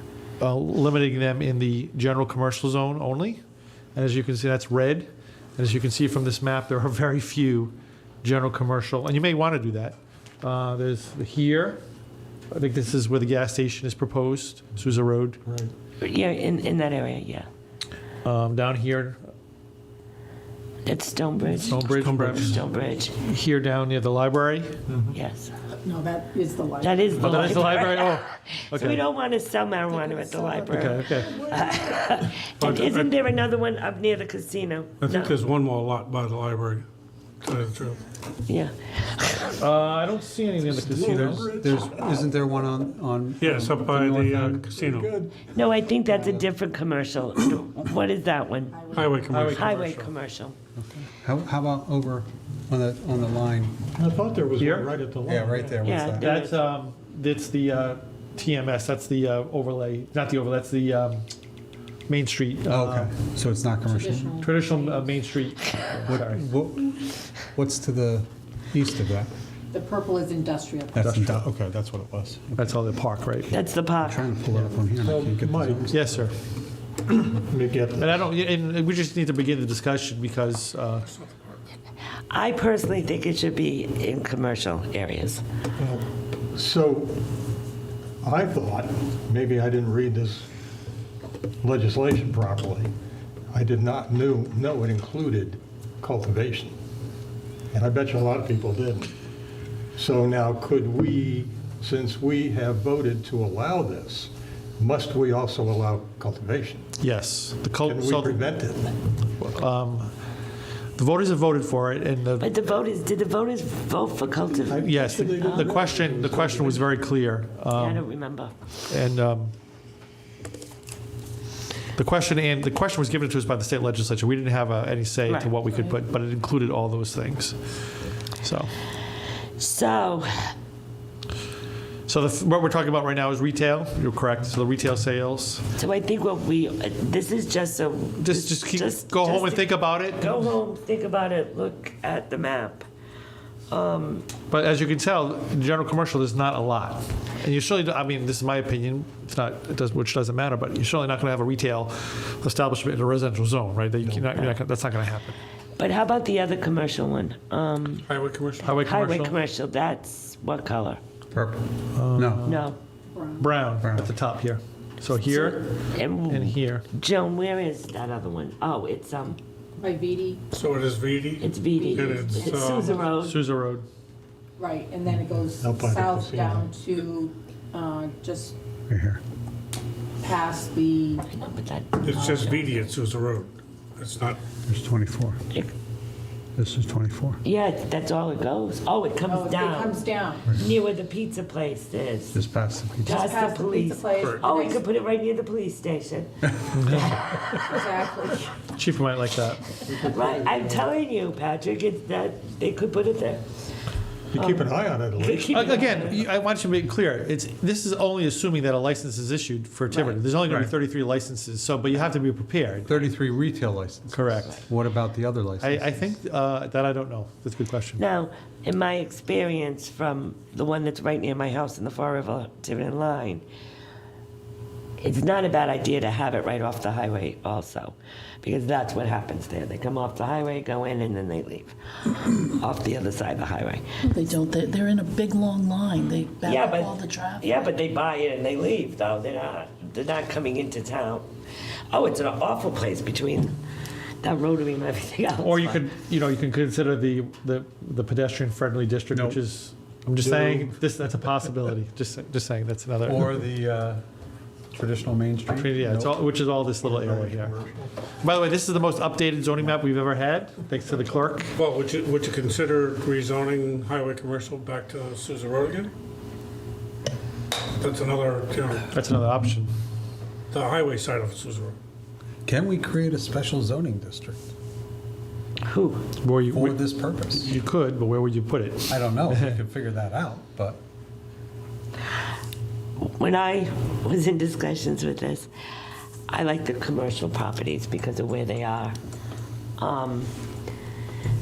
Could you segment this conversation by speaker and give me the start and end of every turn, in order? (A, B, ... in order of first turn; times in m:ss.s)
0:00.4-0:03.4 A
0:03.9-0:11.8 A
0:12.5-0:15.4 A
0:15.4-0:15.7 B
0:16.0-0:17.5 C
0:18.2-0:19.2 A
0:20.8-0:23.1 C
0:21.6-0:22.6 A
0:21.8-0:22.6 D
0:23.2-0:24.8 A
0:24.9-0:25.2 B
0:25.1-0:25.5 C
0:25.8-0:27.1 E
0:26.8-0:35.4 C
0:27.1-0:29.0 A
0:27.2-0:27.5 D
0:30.7-0:31.4 A
0:31.3-0:31.8 B
0:32.6-0:33.1 D
0:35.0-0:36.8 D
0:37.4-0:38.0 D
0:38.5-0:39.6 C
0:39.6-0:41.6 A
0:40.7-0:42.4 B
0:40.9-0:44.6 F
0:43.4-0:45.1 D
0:44.7-0:45.5 B
0:45.5-0:50.5 C
0:48.8-0:49.3 E
0:48.9-0:50.1 D
0:49.3-0:49.7 A
0:50.8-0:53.8 F
0:54.0-0:56.0 B
0:54.6-0:54.9 A
0:55.2-0:56.4 F
0:55.8-0:56.5 C
0:56.2-1:01.3 A
1:02.1-1:03.1 A
1:02.7-1:04.5 F
1:03.9-1:05.0 E
1:04.4-1:06.4 A
1:06.1-1:09.3 F
1:09.7-1:10.9 E
1:10.9-1:11.5 F
1:11.0-1:11.4 A
1:11.2-1:12.4 B
1:12.3-1:12.6 F
1:12.6-1:13.5 A
1:13.5-1:14.3 C
1:14.0-1:15.9 F
1:14.5-1:15.9 B
1:15.9-1:16.3 A
1:17.1-1:18.1 B
1:18.0-1:21.1 A
1:22.3-1:25.4 C
1:25.8-1:27.2 B
1:28.2-1:30.4 B
1:31.6-1:32.9 B
1:33.5-1:36.7 B
1:37.7-1:39.1 B
1:40.0-1:46.9 B
1:47.0-1:48.4 A
1:47.8-1:48.9 B
1:49.4-1:50.2 A
1:51.0-1:52.6 A
1:52.4-1:55.7 C
1:54.7-1:56.9 B
1:54.8-1:58.0 A
1:57.7-1:58.5 C
1:58.9-1:59.5 A
2:02.0-2:07.6 A
2:05.3-2:05.5 C
2:08.4-2:08.7 A
2:09.6-2:10.5 C
2:12.1-2:15.6 A
2:15.8-2:22.8 C
2:18.2-2:20.4 A
2:23.7-2:24.3 C
2:24.5-2:35.4 A
2:34.0-2:34.4 B
2:35.8-2:38.0 C
2:38.1-2:38.8 D
2:38.6-2:39.4 A
2:38.8-2:41.0 C
2:41.3-2:42.4 F
2:41.9-2:42.7 A
2:42.4-2:42.8 C
2:43.2-2:43.4 E
2:43.4-2:45.6 A
2:43.8-2:44.1 F
2:45.2-2:49.4 C
2:46.3-2:46.8 A
2:49.8-2:50.4 E
2:50.5-2:52.9 D
2:51.4-2:53.4 C
2:51.8-2:53.0 E
2:53.2-2:53.8 A
2:54.6-2:58.5 E
2:55.1-2:56.7 B
2:58.9-2:59.2 F
3:00.2-3:01.2 E
3:01.3-3:02.8 C
3:02.0-3:04.4 D
3:04.7-3:05.4 F
3:06.6-3:07.4 F
3:07.4-3:12.4 C
3:09.3-3:10.5 E
3:12.3-3:13.2 F
3:13.0-3:16.3 C
3:13.1-3:14.8 E
3:14.2-3:14.4 D
3:16.7-3:17.2 A
3:17.5-3:18.5 E
3:18.7-3:19.8 A
3:19.9-3:20.9 B
3:20.0-3:23.4 C
3:24.3-3:26.2 B
3:24.4-3:24.6 C
3:25.2-3:26.2 C
3:25.5-3:33.0 A
3:29.9-3:30.2 C
3:32.9-3:36.0 F
3:34.1-3:34.6 A
3:35.6-3:38.0 A
3:38.0-3:43.4 C
3:45.0-3:53.8 C
3:54.0-3:57.7 G
3:56.4-4:01.3 C
4:01.9-4:03.5 C
4:04.2-4:05.8 C
4:05.4-4:13.4 A
4:09.1-4:09.4 F
4:10.2-4:10.8 B
4:13.0-4:14.0 F
4:14.7-4:16.2 F
4:15.5-4:17.5 A
4:16.8-4:17.9 B
4:18.2-4:21.5 A
4:21.5-4:25.9 D
4:27.8-4:28.9 D
4:28.9-4:29.7 A
4:30.5-4:31.8 D
4:32.4-4:34.4 F
4:35.7-4:36.1 C
4:36.2-4:39.6 A
4:36.5-4:37.5 F
4:38.9-4:40.8 F
4:43.0-4:45.5 C
4:46.3-4:49.0 C
4:49.8-4:50.3 C